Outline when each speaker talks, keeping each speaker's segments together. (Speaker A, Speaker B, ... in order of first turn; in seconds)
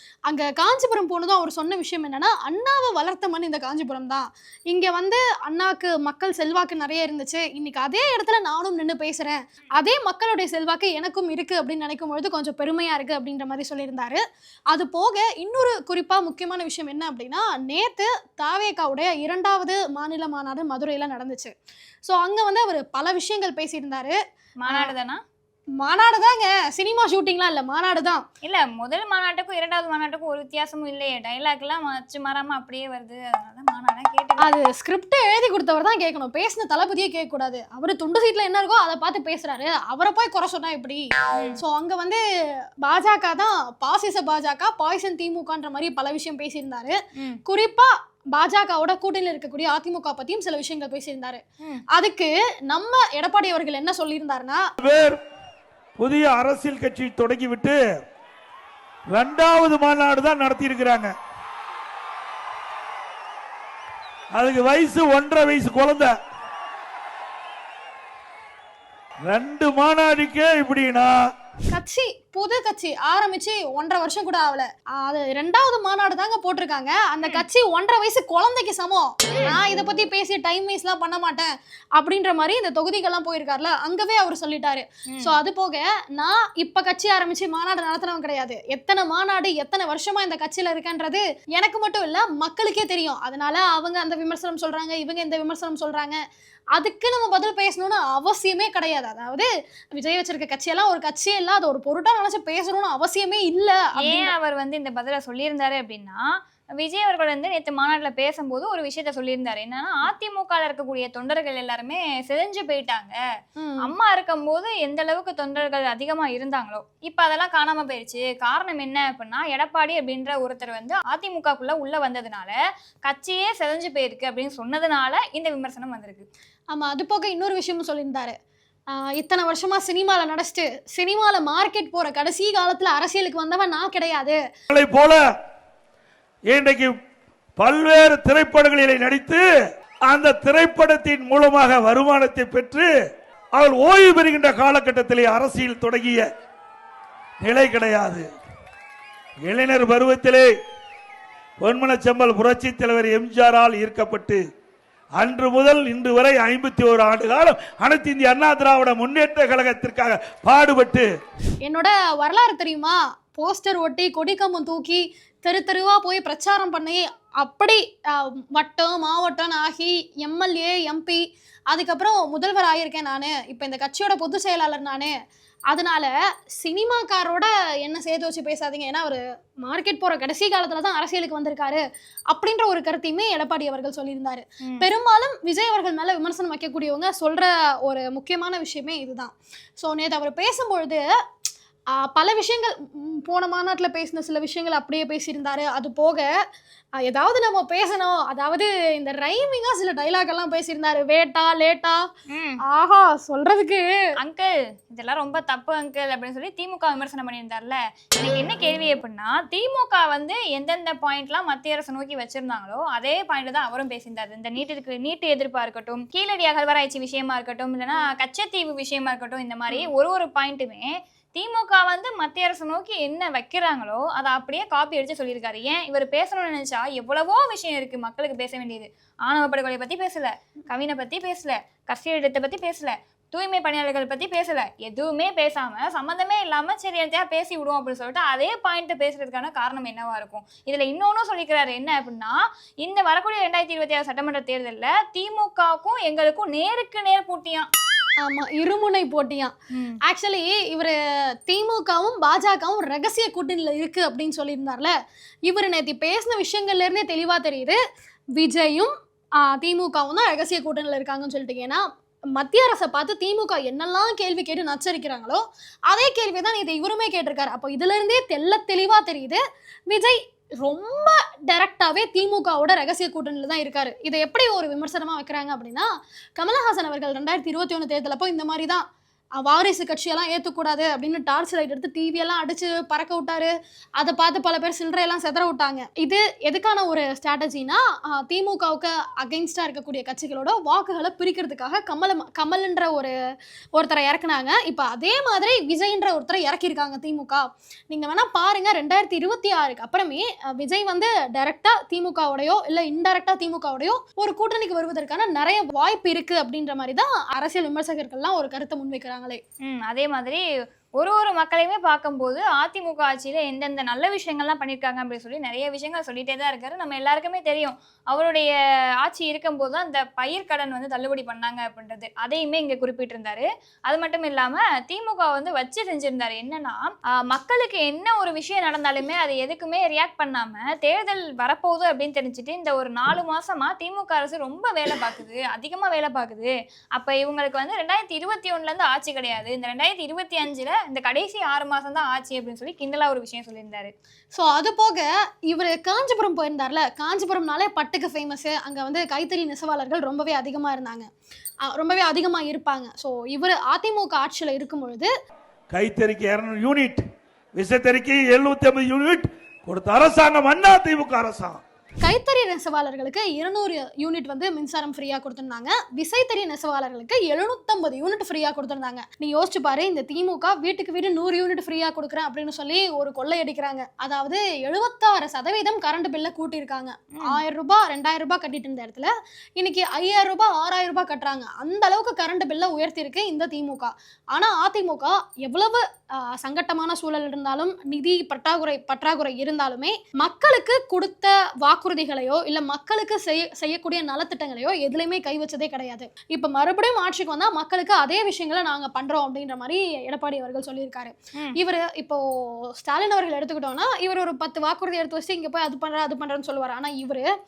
Speaker A: 0.3-21.5, 22.1-24.2, 25.8-28.2, 34.4-41.0, 41.6-42.2, 42.8-54.6, 71.7-96.2, 96.8-104.3, 113.6-113.9, 126.7-128.3, 128.9-134.4, 161.6-175.1, 175.7-191.0, 192.0-196.3, 197.0-202.0, 202.7-203.9, 248.2-249.5, 250.1-251.0, 251.5-254.9, 255.5-257.8, 258.4-258.9, 259.4-261.8, 262.4-278.8, 279.4-293.1, 293.8-309.4, 344.3-351.1, 351.6-355.1, 362.0-385.8, 386.4-407.3
Speaker B: 24.6-25.2, 28.4-34.5, 41.4-41.6, 104.0-106.2, 106.8-113.2, 113.8-126.2, 202.3-202.6, 204.2-247.7, 249.7-250.0, 309.7-310.4, 311.0-318.5, 319.0-343.9
Speaker C: 54.8-55.2, 56.0-57.8, 59.1-61.1, 64.3-66.2, 69.3-71.2, 134.7-135.2, 136.5-136.9, 137.6-139.4, 140.1-142.9, 143.6-146.2, 147.4-148.2, 149.5-150.5, 151.6-154.4, 155.2-161.1, 355.7-357.0, 357.6-361.6